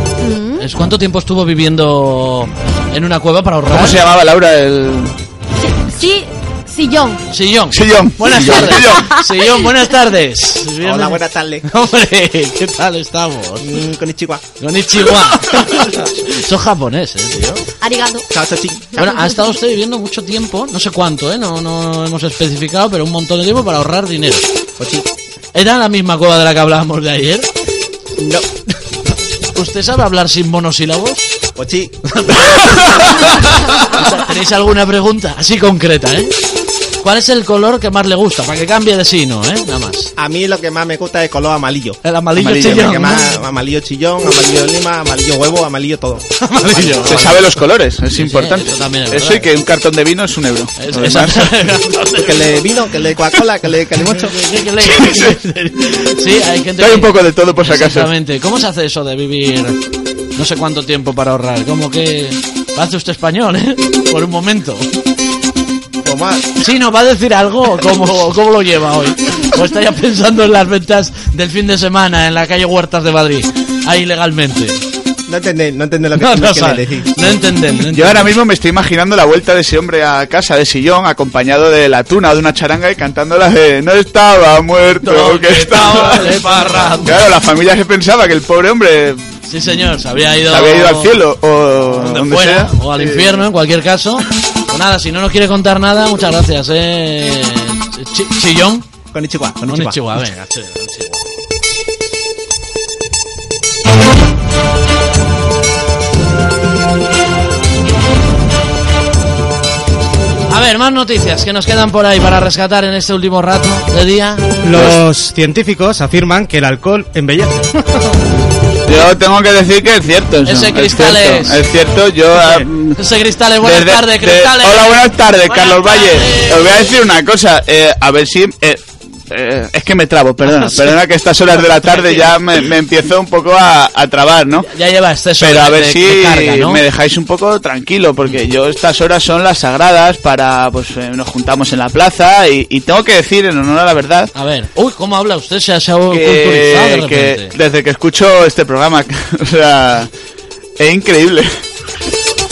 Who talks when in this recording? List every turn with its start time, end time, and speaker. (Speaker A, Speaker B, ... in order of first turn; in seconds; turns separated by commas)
Speaker A: 0.2-0.7, Speaker B: 0.6-4.0, Speaker C: 3.7-5.1, Speaker A: 5.6-7.2, Speaker B: 7.3-13.7, Speaker C: 7.7-9.2, Speaker D: 10.8-11.7, Speaker D: 13.6-14.4, Speaker B: 14.6-17.6, Speaker A: 17.8-18.2, Speaker D: 18.3-19.2, Speaker B: 19.0-24.5, Speaker A: 19.0-19.5, Speaker D: 24.8-25.1, Speaker B: 25.5-27.5, Speaker D: 28.2-28.5, Speaker B: 29.5-31.3, Speaker D: 31.6-32.0, Speaker B: 32.2-36.3, Speaker B: 37.0-40.1, Speaker D: 40.2-42.0, Speaker B: 42.0-43.3, Speaker C: 42.4-42.9, Speaker D: 42.6-47.2, Speaker B: 46.4-47.4, Speaker C: 47.0-51.7, Speaker B: 48.1-49.5, Speaker B: 50.8-52.7, Speaker D: 52.1-54.4, Speaker B: 54.1-59.8, Speaker C: 54.9-55.4, Speaker C: 56.8-58.1, Speaker B: 60.4-64.9, Speaker D: 66.0-66.6, Speaker B: 66.6-74.8, Speaker D: 75.3-77.3, Speaker B: 76.2-78.3, Speaker C: 77.9-89.3, Speaker B: 85.0-87.3, Speaker B: 89.5-91.1, Speaker C: 90.5-93.5, Speaker B: 91.9-98.8, Speaker D: 99.1-100.0, Speaker B: 99.7-101.2, Speaker B: 110.5-114.5, Speaker E: 114.6-117.7, Speaker C: 118.8-123.0, Speaker B: 120.5-121.6, Speaker B: 123.0-126.9, Speaker C: 123.6-134.7, Speaker B: 130.4-131.0, Speaker B: 131.5-132.4, Speaker B: 134.6-136.8, Speaker C: 135.4-144.3, Speaker B: 144.3-147.5, Speaker C: 146.1-150.1, Speaker C: 150.8-151.5